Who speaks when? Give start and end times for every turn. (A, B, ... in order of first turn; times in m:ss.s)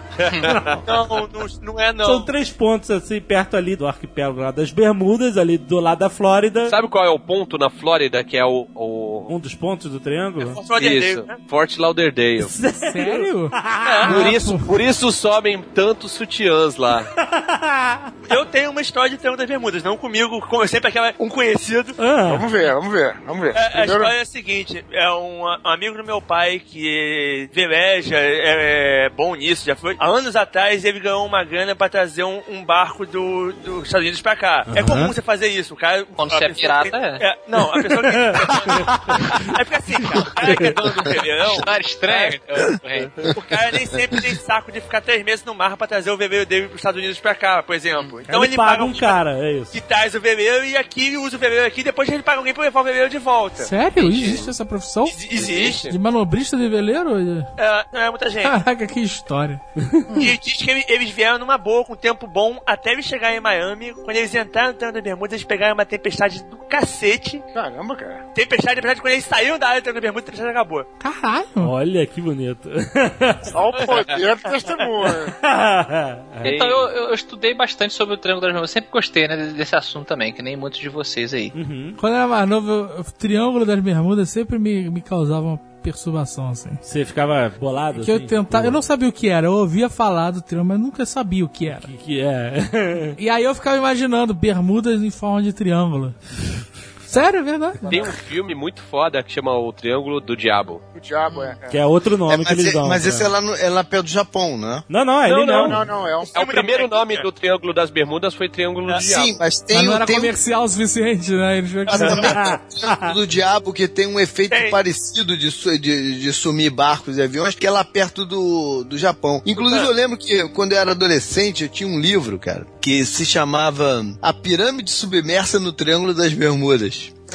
0:00.3-0:00.5 A
0:00.3-0:01.0 B
0:00.4-0:00.7 C
0:00.8-0:02.3 D
0:02.0-0:06.8 B
0:06.7-0:09.3 C
0:09.3-0:10.6 B
0:10.4-0:11.4 D
0:10.8-0:12.6 C
0:12.4-0:14.1 B
0:12.8-0:14.7 E
0:13.8-0:14.2 D
0:14.1-0:17.1 C
0:17.2-0:18.1 B
0:18.3-0:22.0 D
0:22.0-0:22.5 B
0:22.2-0:24.1 F
0:23.5-0:38.9 D
0:34.7-0:35.1 B
0:36.2-0:37.2 A
0:38.0-0:38.9 B
0:39.5-0:42.4 D
0:40.2-0:41.1 G
0:40.4-0:40.7 B
0:41.4-0:43.2 A
0:43.3-0:49.2 D
0:44.0-0:44.3 G
0:48.0-0:48.2 A
0:48.3-0:49.7 B
0:49.7-0:53.7 D
0:53.6-0:55.2 E
0:54.0-0:54.4 A
0:55.1-0:55.9 D
0:55.3-0:55.9 C
0:55.9-0:57.5 E
0:57.6-0:58.6 D
0:58.4-0:59.6 E
1:00.1-1:00.4 A
1:00.1-1:07.4 D
1:07.5-1:08.2 F
1:08.4-1:10.9 D
1:11.0-1:11.7 E
1:11.6-1:13.6 B
1:13.5-1:15.4 F
1:13.8-1:14.2 D
1:15.4-1:16.6 B
1:16.4-1:21.6 A
1:21.5-1:22.0 B
1:22.0-1:26.8 E
1:26.8-1:28.8 B
1:28.0-1:31.9 E
1:31.8-1:33.2 B
1:33.2-1:36.2 E
1:37.1-1:38.0 E
1:37.9-1:40.8 C
1:40.9-1:41.8 F
1:41.3-1:41.6 A
1:41.7-1:43.3 B
1:42.3-1:44.9 G
1:44.9-1:45.8 B
1:45.3-1:45.8 C
1:45.6-1:46.4 F
1:46.2-1:47.2 D
1:46.3-1:49.3 C
1:48.9-1:49.2 D
1:49.0-1:50.4 G
1:49.7-1:52.3 E
1:51.9-2:07.1 G
1:52.0-1:52.2 D
1:52.2-1:53.1 B
1:54.5-1:54.8 D
1:59.6-1:59.9 D